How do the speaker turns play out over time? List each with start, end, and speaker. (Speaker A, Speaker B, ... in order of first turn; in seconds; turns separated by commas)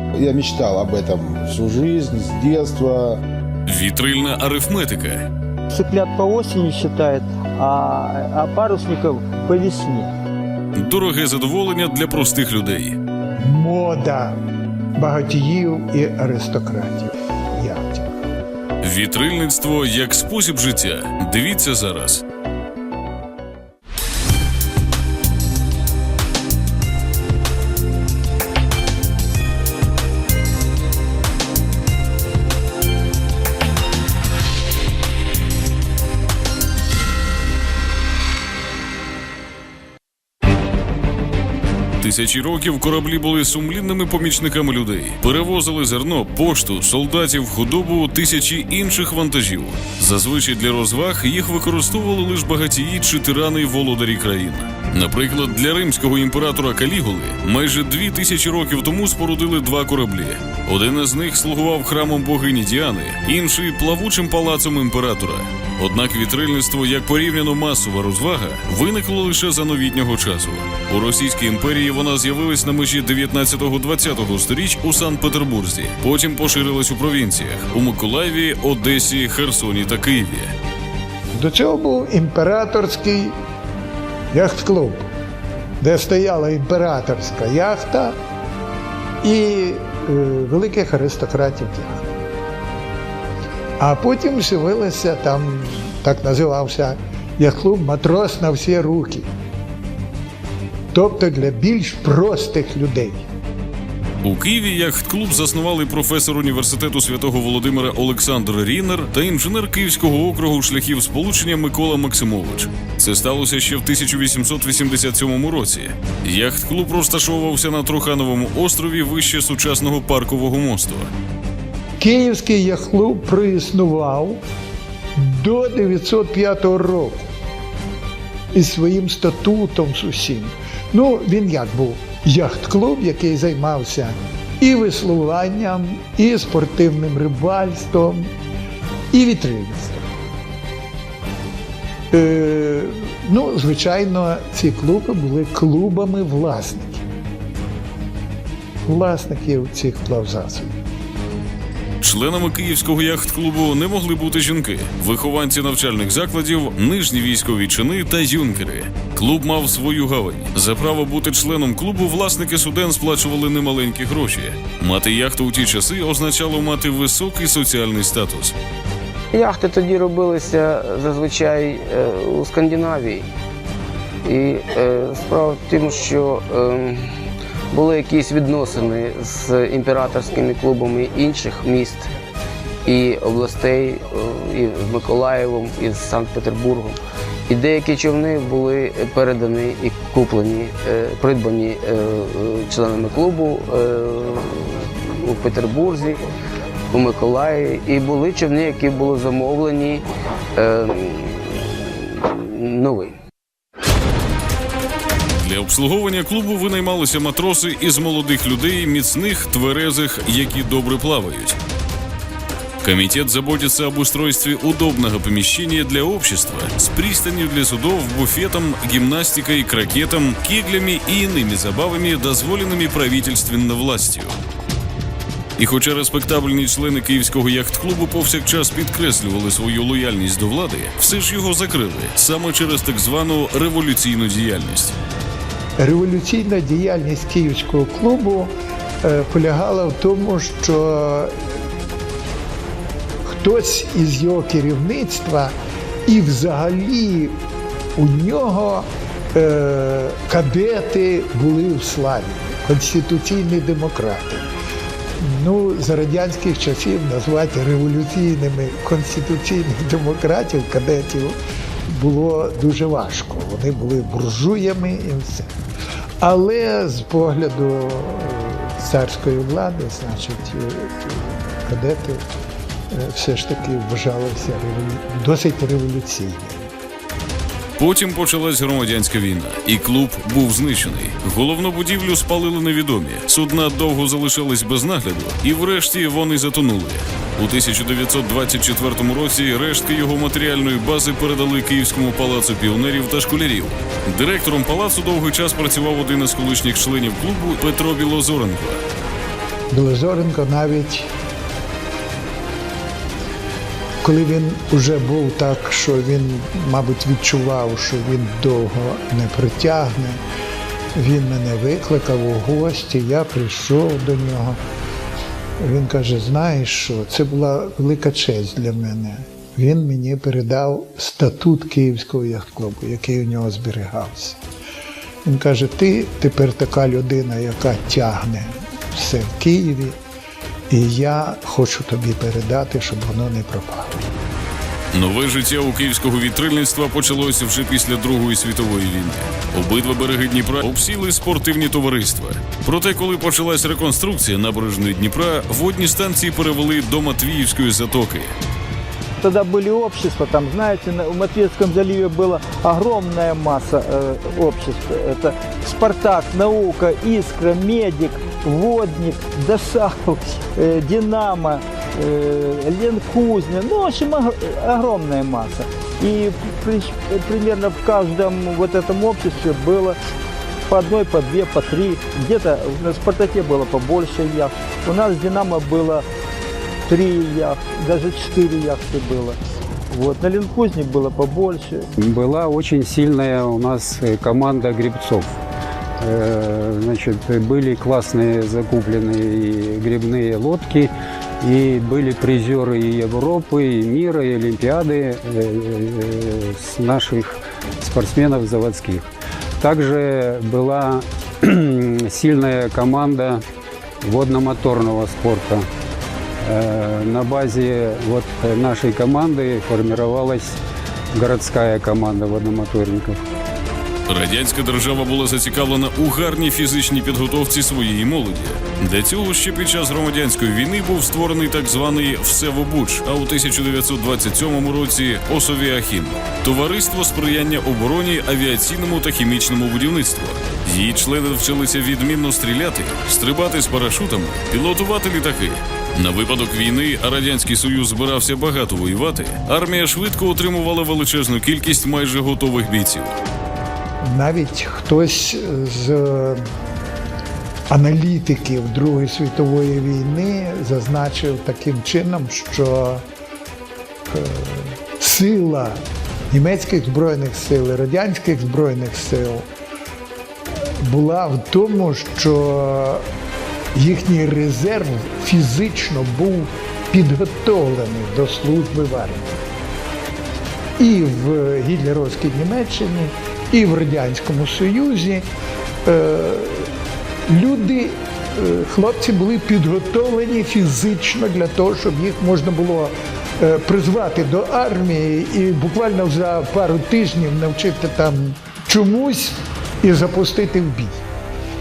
Speaker A: 0.1-3.2, Speaker B: 3.7-5.3, Speaker C: 5.7-10.1, Speaker B: 10.7-13.0, Speaker D: 13.4-14.4, Speaker D: 14.9-18.2, Speaker B: 18.8-22.2, Speaker B: 42.0-80.5, Speaker D: 81.3-83.4, Speaker D: 84.3-85.1, Speaker D: 85.8-88.2, Speaker D: 89.2-92.0, Speaker D: 93.8-99.3, Speaker D: 100.9-103.2, Speaker B: 104.2-121.1, Speaker D: 122.0-124.4, Speaker D: 125.2-127.3, Speaker D: 128.5-138.3, Speaker D: 139.1-140.1, Speaker D: 142.1-147.1, Speaker D: 148.8-150.8, Speaker B: 152.0-168.5, Speaker E: 169.3-173.3, Speaker E: 174.2-177.1, Speaker E: 177.7-182.1, Speaker E: 182.8-187.0, Speaker E: 187.5-196.2, Speaker E: 196.9-200.0, Speaker E: 200.6-203.2, Speaker B: 205.3-211.6, Speaker B: 212.8-224.4, Speaker B: 225.6-234.9, Speaker D: 235.8-241.3, Speaker D: 243.2-247.4, Speaker D: 247.9-254.5, Speaker D: 255.2-265.5, Speaker D: 266.2-272.2, Speaker D: 272.9-276.7, Speaker B: 277.8-298.8, Speaker D: 299.7-301.1, Speaker D: 304.0-310.2, Speaker D: 310.9-314.6, Speaker D: 315.6-324.4, Speaker D: 325.2-330.0, Speaker D: 330.7-334.1, Speaker B: 334.9-348.3, Speaker C: 349.2-370.0, Speaker C: 370.7-376.1, Speaker C: 376.9-379.4, Speaker C: 379.9-381.9, Speaker F: 382.0-385.3, Speaker F: 386.0-399.1, Speaker F: 399.6-403.4, Speaker F: 404.0-405.7, Speaker F: 406.4-410.6, Speaker F: 411.1-413.2, Speaker B: 414.1-443.1, Speaker D: 444.0-446.5, Speaker D: 447.7-453.0, Speaker D: 454.1-459.5, Speaker D: 460.8-463.0, Speaker D: 463.7-469.4, Speaker D: 470.8-475.3, Speaker D: 475.8-476.7, Speaker D: 477.3-491.0